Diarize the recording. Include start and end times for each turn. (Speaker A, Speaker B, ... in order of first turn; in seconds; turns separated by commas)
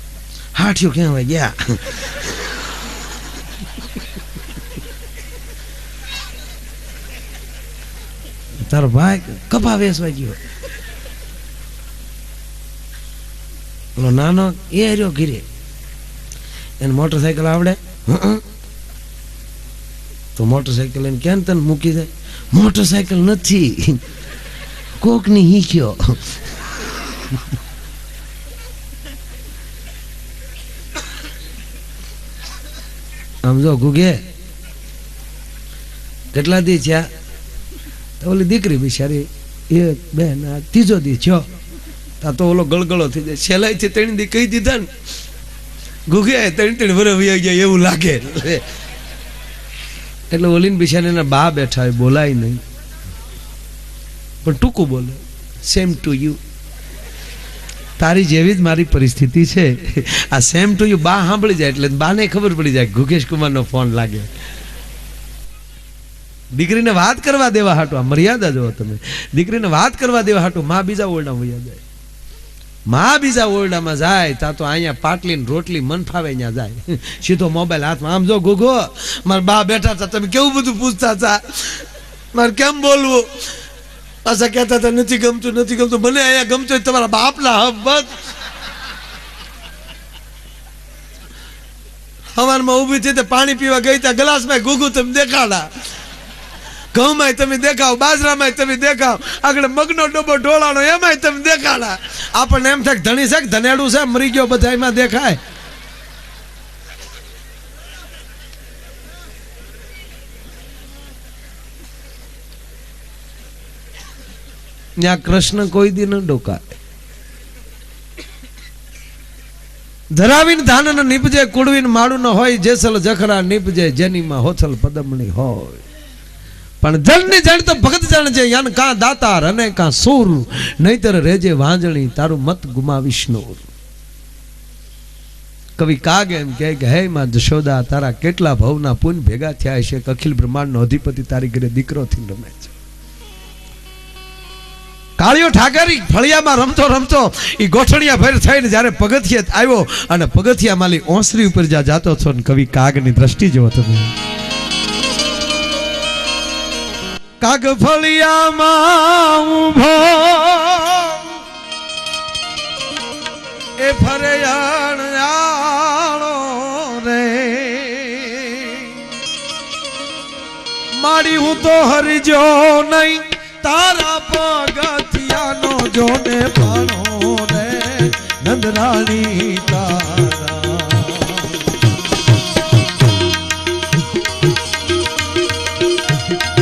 Speaker A: 0.5-2.7, Speaker A: 8.6-10.4, Speaker A: 13.9-15.4, Speaker A: 16.8-18.4, Speaker A: 20.4-24.0, Speaker A: 25.0-26.4, Speaker A: 27.1-27.4, Speaker A: 33.4-34.2, Speaker A: 36.3-37.1, Speaker A: 38.2-41.5, Speaker A: 42.2-44.9, Speaker A: 46.1-48.7, Speaker A: 50.3-52.6, Speaker A: 54.4-56.4, Speaker A: 58.0-64.3, Speaker A: 66.5-71.8, Speaker A: 72.9-83.6, Speaker A: 84.2-88.1, Speaker A: 92.3-95.7, Speaker A: 96.9-105.4, Speaker A: 115.0-116.8, Speaker A: 120.1-125.8, Speaker A: 126.8-133.7, Speaker A: 135.8-142.7, Speaker A: 145.2-154.1, Speaker A: 157.4-161.4, Speaker A: 163.8-169.1, Speaker A: 170.9-181.7